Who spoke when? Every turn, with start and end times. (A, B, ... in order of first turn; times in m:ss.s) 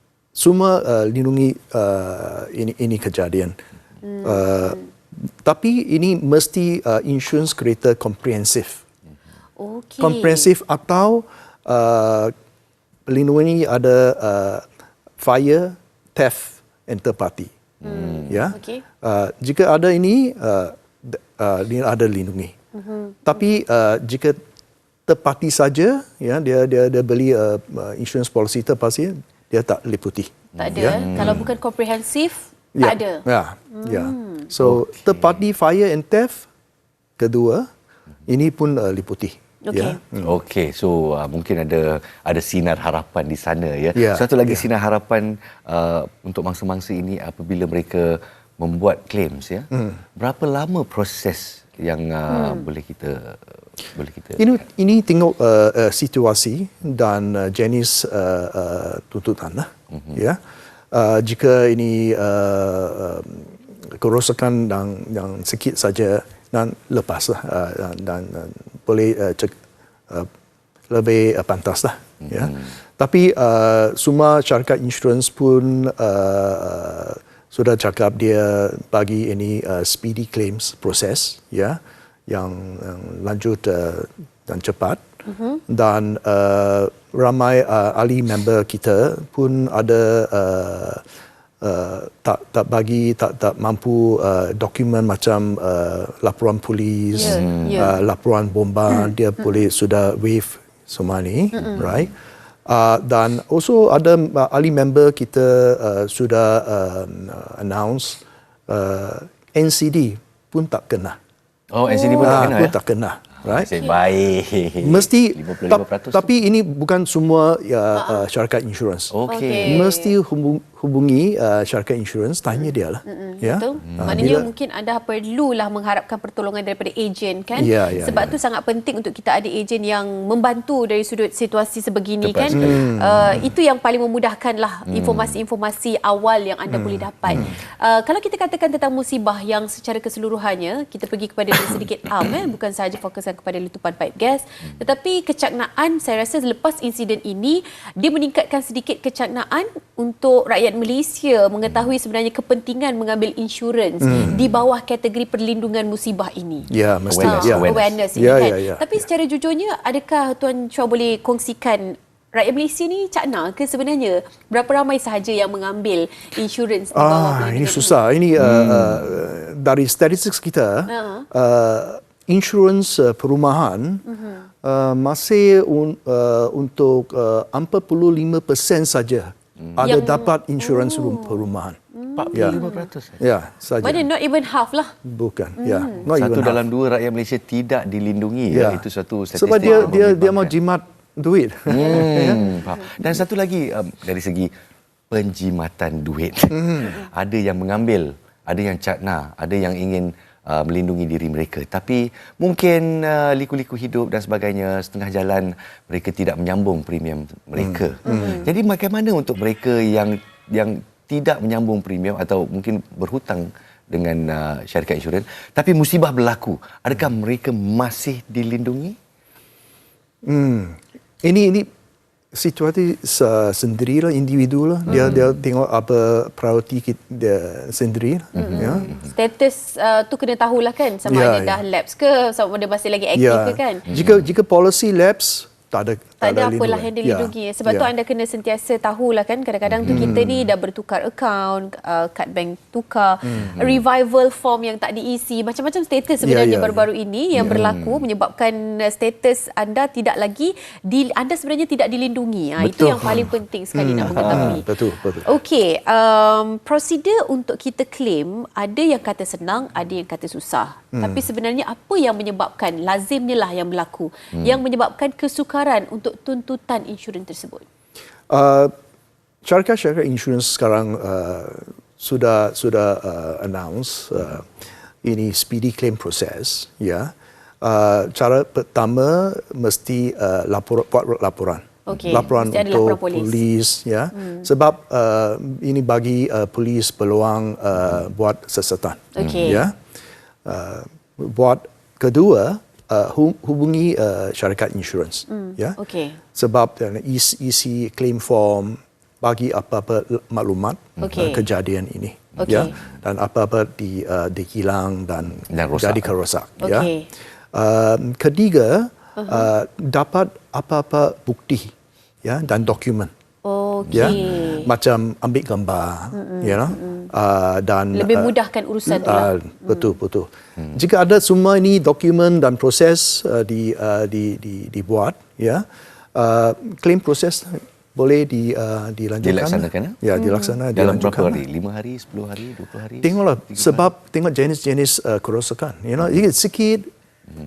0:00.4-0:03.6 A
0:04.0-0:04.8 B
0:04.2-0:08.8 A
0:09.6-0:10.5 B
0:10.0-0:12.3 A
0:13.1-0:14.6 A
0:15.2-0:17.5 A
0:17.8-0:18.5 C
0:17.8-0:18.8 B
0:18.3-0:22.5 A
0:22.7-0:23.4 B
0:23.3-0:24.4 A
0:25.1-0:31.5 A
0:30.6-0:31.5 C
0:30.6-0:34.5 B
0:32.8-0:36.5 A
0:34.6-0:35.4 C
0:37.2-0:37.7 A
0:38.3-0:40.3 A
0:39.6-0:40.0 B
0:40.2-0:54.6 C
0:44.0-0:44.7 A
0:49.7-0:50.0 A
0:52.3-0:52.7 B
0:54.4-1:00.4 A
0:59.9-1:00.2 C
1:00.9-1:09.6 A
1:10.9-1:25.0 A
1:25.3-1:25.6 B
1:25.7-1:31.0 A
1:31.6-1:42.1 A
1:37.1-1:38.0 B
1:37.2-1:37.9 C
1:38.9-1:39.6 B
1:41.6-1:41.9 B
1:41.8-1:42.1 C
1:42.7-1:51.2 A
1:51.7-1:52.8 C
1:51.9-1:52.5 B
1:52.2-1:53.7 A
1:53.4-1:56.3 C
1:53.7-1:54.0 B
1:54.8-1:59.1 A
1:57.9-1:58.3 B
1:59.1-1:59.9 C
1:59.3-2:00.1 B
1:59.6-2:04.5 A
2:03.0-2:36.7 B
2:03.8-2:04.4 C
2:07.5-2:08.4 A
2:07.9-2:08.3 C
2:12.2-2:13.4 C
2:12.5-2:13.4 A
2:14.9-2:15.4 C
2:16.7-2:17.6 A
2:34.0-2:34.4 A
2:36.7-2:39.0 A
2:37.1-2:38.0 C
2:37.2-2:48.0 B
2:46.9-2:54.0 A
2:48.4-2:49.1 C
2:50.9-2:51.3 B
2:54.1-2:54.5 B
2:54.6-3:01.8 A
2:59.8-3:00.0 C
2:59.8-3:02.9 B
3:02.2-3:03.2 C
3:02.3-3:02.6 A
3:03.2-3:04.0 A
3:03.8-3:04.9 B
3:05.0-3:06.6 A
3:05.6-3:06.1 B
3:06.1-3:10.6 C
3:08.5-3:12.4 A
3:09.7-3:09.9 B
3:11.7-3:14.5 C
3:12.0-3:12.6 B
3:15.1-3:39.0 C
3:16.5-3:17.0 A
3:27.6-3:28.4 A
3:28.0-3:28.5 B
3:40.2-3:41.7 A
3:42.3-3:48.9 A
3:44.9-3:45.2 B
3:44.9-3:45.3 C
3:48.4-3:49.1 C
3:48.4-3:53.9 B
3:51.1-3:51.6 A
3:53.2-3:57.9 A
3:53.9-3:54.3 C
3:56.2-4:14.7 B
3:59.7-4:00.2 C
3:59.9-4:00.4 A
4:03.2-4:03.6 A
4:03.4-4:03.8 C
4:06.2-4:07.7 A
4:07.4-4:08.1 C
4:12.6-4:15.3 A
4:14.1-4:14.6 C
4:15.2-4:27.6 B
4:21.0-4:21.3 A
4:28.3-4:28.7 A
4:29.4-4:34.5 A
4:35.0-4:49.8 A
4:41.9-4:43.4 B
4:44.2-4:44.5 B
4:49.2-4:49.7 B
4:50.4-4:55.8 A
4:55.3-4:56.2 B
4:56.4-5:06.9 A
5:01.0-5:01.5 B
5:02.3-5:02.8 C
5:02.4-5:02.7 B
5:05.5-5:06.1 C
5:06.6-5:07.1 B
5:07.5-5:11.7 A
5:09.2-5:09.5 B
5:12.2-5:13.1 A
5:13.4-5:14.7 B
5:13.9-5:14.4 C
5:13.9-5:31.4 A
5:16.1-5:17.1 B
5:17.9-5:20.0 B
5:29.2-5:30.0 C
5:30.1-5:30.6 B
5:30.7-5:33.9 C
5:33.0-5:36.9 A